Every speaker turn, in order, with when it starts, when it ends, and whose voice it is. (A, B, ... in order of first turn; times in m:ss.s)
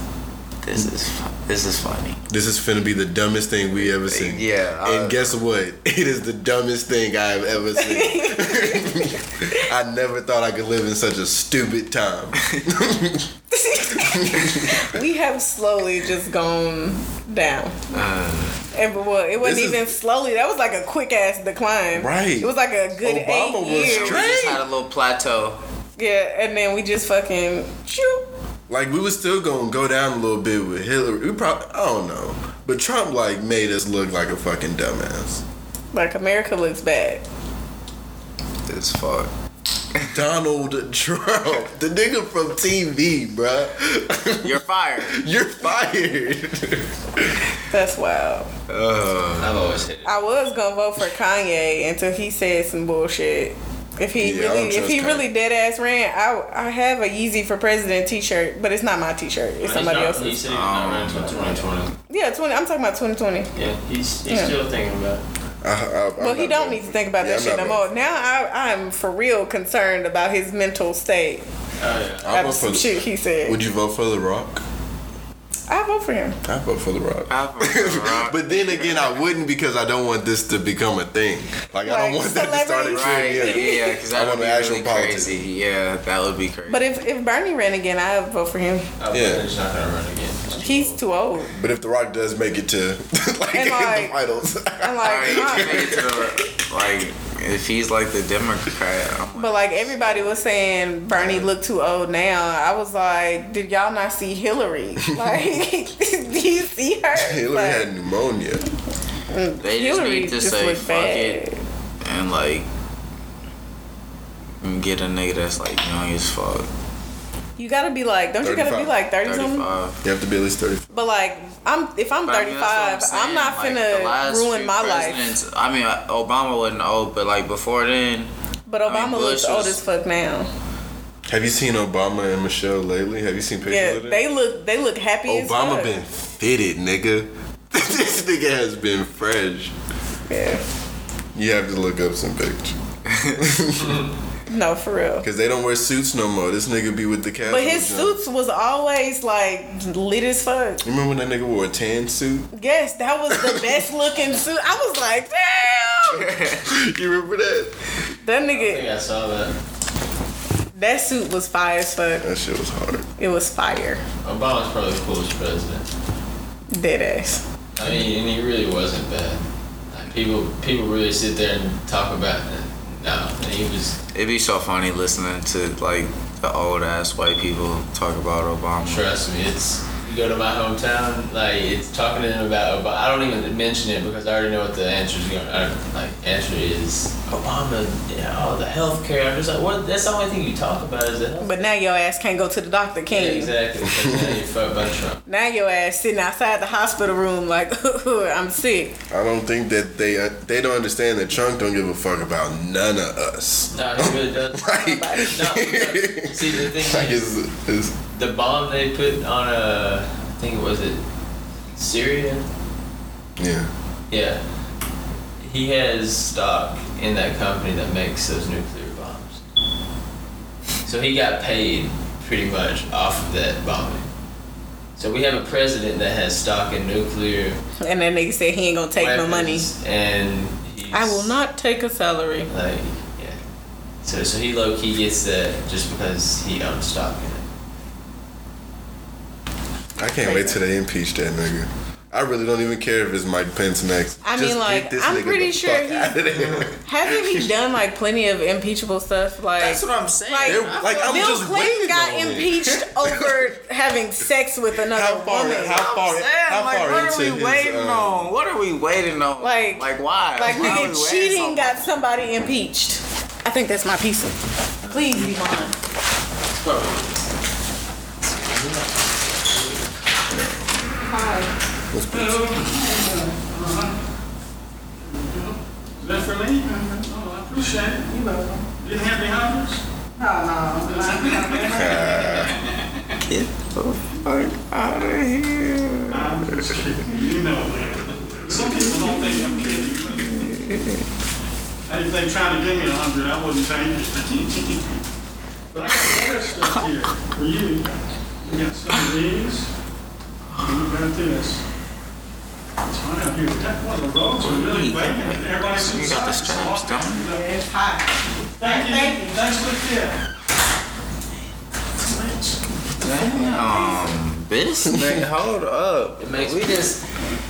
0:00.6-0:02.2 A
0:02.3-0:13.3 B
0:03.8-0:05.3 A
0:07.8-0:09.6 C
0:13.5-0:18.0 C
0:13.9-0:14.9 B
0:17.9-0:18.6 A
0:18.7-0:24.4 C
0:19.4-0:19.9 B
0:21.9-0:24.6 B
0:23.6-0:25.6 A
0:26.0-0:28.2 C
0:28.7-0:35.4 B
0:35.9-0:37.2 C
0:38.7-0:39.3 A
0:40.1-0:47.5 B
0:44.4-0:45.2 A
0:47.7-0:48.5 C
0:48.7-0:49.6 A
0:49.3-0:50.2 D
0:50.0-1:00.4 C
0:54.2-0:55.3 B
0:59.6-1:01.9 D
1:00.5-1:01.6 A
1:02.1-1:03.5 C
1:03.5-1:05.2 D
1:04.3-1:04.5 C
1:05.6-1:07.8 B
1:06.2-1:11.4 C
1:11.8-1:12.4 D
1:12.2-1:14.6 B
1:12.3-1:13.6 C
1:15.7-1:16.4 C
1:16.4-1:25.4 B
1:17.3-1:19.1 A
1:21.8-1:24.0 C
1:22.9-1:26.8 A
1:26.7-1:28.8 C
1:29.0-1:31.0 D
1:29.1-1:29.4 B
1:30.6-1:31.5 C
1:31.5-1:36.3 B
1:33.5-1:34.1 C
1:34.8-1:36.0 C
1:35.0-1:40.3 A
1:39.3-1:47.9 C
1:41.1-1:41.5 B
1:45.0-1:45.6 B
1:47.1-1:48.6 B
1:49.3-1:51.6 C
1:49.6-1:51.4 A
1:52.0-1:52.7 A
1:54.6-1:56.7 A
1:57.6-1:59.7 C
1:58.4-1:59.0 B
1:59.2-2:00.0 A
2:00.0-2:00.9 B
2:00.9-2:05.3 C
2:02.2-2:08.3 A
2:08.7-2:10.5 C
2:08.9-2:09.8 A
2:11.3-2:14.2 B
2:13.6-2:15.9 C
2:15.2-2:19.7 B
2:20.3-2:20.6 C
2:21.3-2:22.8 B
2:23.1-2:23.4 A
2:23.3-2:24.0 B
2:23.8-2:24.1 D
2:24.5-2:25.3 C
2:25.2-2:28.2 B
2:27.4-2:30.8 C
2:30.8-2:32.5 B
2:32.5-2:36.3 C
2:33.3-2:33.8 B
2:36.1-2:36.6 A
2:36.5-2:37.8 B
2:38.2-2:38.8 C
2:38.5-2:39.6 D
2:40.8-2:42.2 C
2:42.2-2:43.1 B
2:43.2-2:44.0 C
2:44.2-2:45.9 D
2:46.7-2:47.4 C
2:47.8-2:54.0 D
2:54.1-2:59.0 A
2:58.8-3:11.5 D
3:11.4-3:13.5 C
3:13.1-3:15.2 D
3:13.9-3:14.3 B
3:15.3-3:19.0 C
3:19.1-3:28.0 B
3:23.7-3:27.3 D
3:24.7-3:25.4 C
3:28.1-3:31.0 D
3:31.7-3:32.5 D
3:33.4-3:33.7 B
3:34.1-3:34.4 D
3:35.4-3:39.4 D
3:40.8-3:44.1 D
3:45.0-3:47.6 D
3:47.8-3:49.7 C
3:49.0-3:51.3 D
3:50.9-3:52.5 C
3:52.5-3:53.4 D
3:54.0-3:57.5 D
4:00.0-4:07.5 B
4:00.0-4:00.6 C
4:04.2-4:06.2 C
4:06.8-4:15.8 C
4:09.6-4:11.4 A
4:10.4-4:13.6 B
4:14.7-4:18.3 B
4:15.7-4:21.8 A
4:19.4-4:25.7 C
4:26.5-4:27.1 D
4:28.3-4:29.9 D
4:30.3-4:30.7 B
4:30.9-4:31.5 C
4:31.9-4:32.6 B
4:32.2-4:34.0 E
4:32.9-4:33.3 C
4:35.0-4:38.1 E
4:36.6-4:37.1 C
4:38.0-4:38.6 C
4:38.8-4:39.8 E
4:40.2-4:42.4 C
4:40.8-4:43.0 E
4:41.7-4:42.6 B
4:43.2-4:46.8 A
4:46.1-4:50.4 E
4:48.6-4:51.0 A
4:51.9-4:55.0 E
4:55.7-4:57.9 E
4:58.4-4:59.7 E
5:00.5-5:00.9 A
5:00.6-5:01.6 E
5:02.8-5:07.5 E
5:04.4-5:07.3 A
5:07.2-5:09.3 C
5:08.4-5:10.2 E
5:12.0-5:12.6 E
5:13.0-5:17.0 A
5:13.0-5:14.1 C
5:14.9-5:15.2 B
5:16.2-5:17.0 D